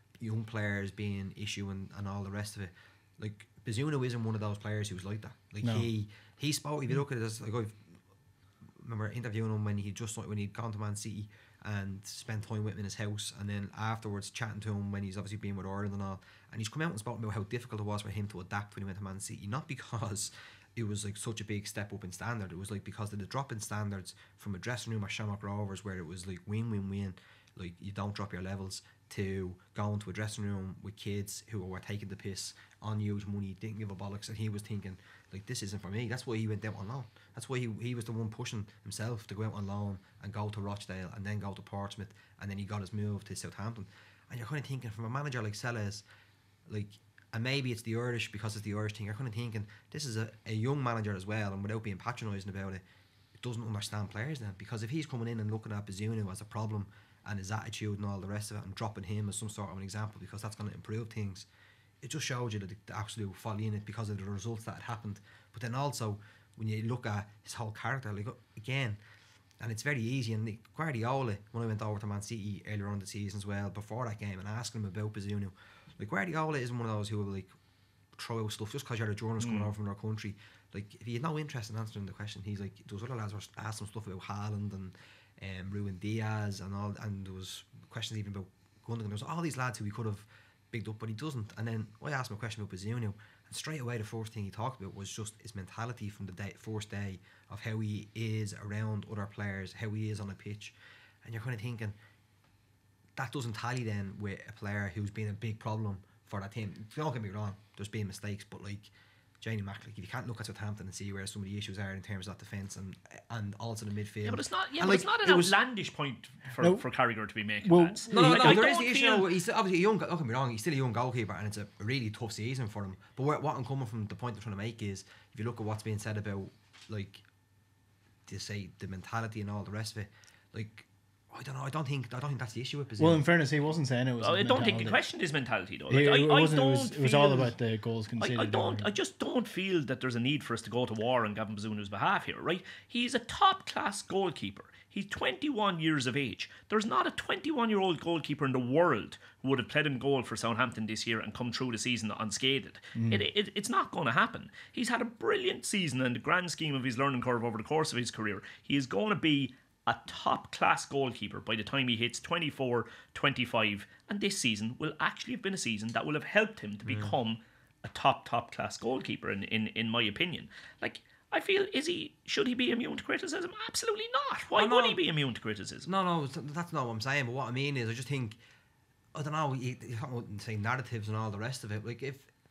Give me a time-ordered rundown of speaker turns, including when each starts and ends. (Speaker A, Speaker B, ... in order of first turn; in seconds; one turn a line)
Speaker A: 0.2-7.8
Speaker B: 5.6-5.9
Speaker A: 8.8-46.0
Speaker A: 46.7-52.8
Speaker A: 53.4-61.5
Speaker A: 62.0-69.0
Speaker A: 69.6-77.5
Speaker A: 78.2-102.0
Speaker C: 79.4-79.7
Speaker A: 103.2-115.6
Speaker C: 114.2-119.3
Speaker B: 117.6-118.7
Speaker A: 118.1-127.2
Speaker A: 128.3-133.2
Speaker B: 133.0-135.0
Speaker C: 134.2-137.6
Speaker B: 135.9-138.9
Speaker C: 138.2-175.9
Speaker B: 152.9-153.2
Speaker A: 166.8-167.2
Speaker A: 174.6-175.0
Speaker A: 175.8-178.4
Speaker A: 179.2-182.3